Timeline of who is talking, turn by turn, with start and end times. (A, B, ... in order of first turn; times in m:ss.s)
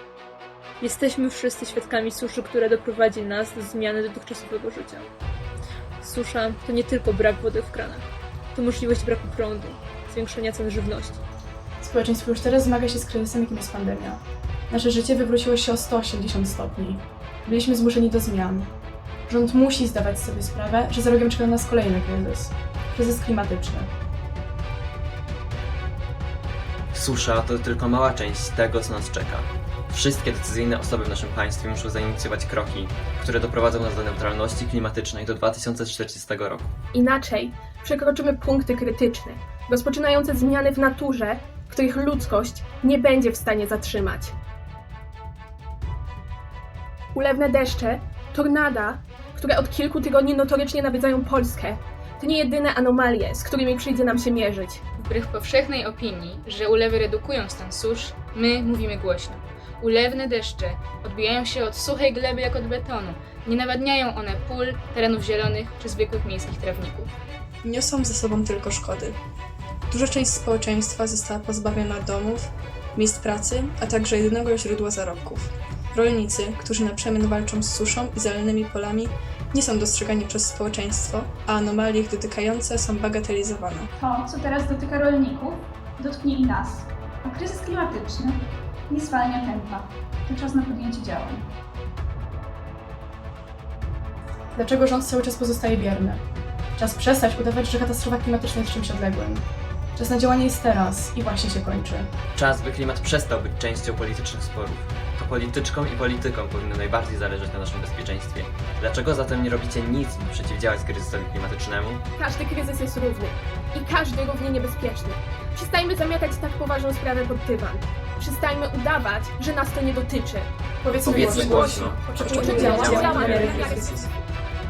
0:00.8-0:05.1 A
0:06.0-0:11.2 A
0:11.8-0:18.7 B
0:19.3-0:23.9 B
0:26.9-0:36.7 C
0:36.9-0:44.4 D
0:47.1-0:54.8 D
0:55.0-1:07.1 E
1:07.6-1:09.2 F
1:09.9-1:23.9 F
1:24.0-1:31.5 G
1:34.6-1:36.2 B
1:36.8-1:39.4 B
1:40.0-1:42.1 B
1:42.3-1:52.0 C
1:52.2-2:03.9 D
2:00.8-2:03.9 B
2:01.1-2:02.5 C
2:02.1-2:04.0 F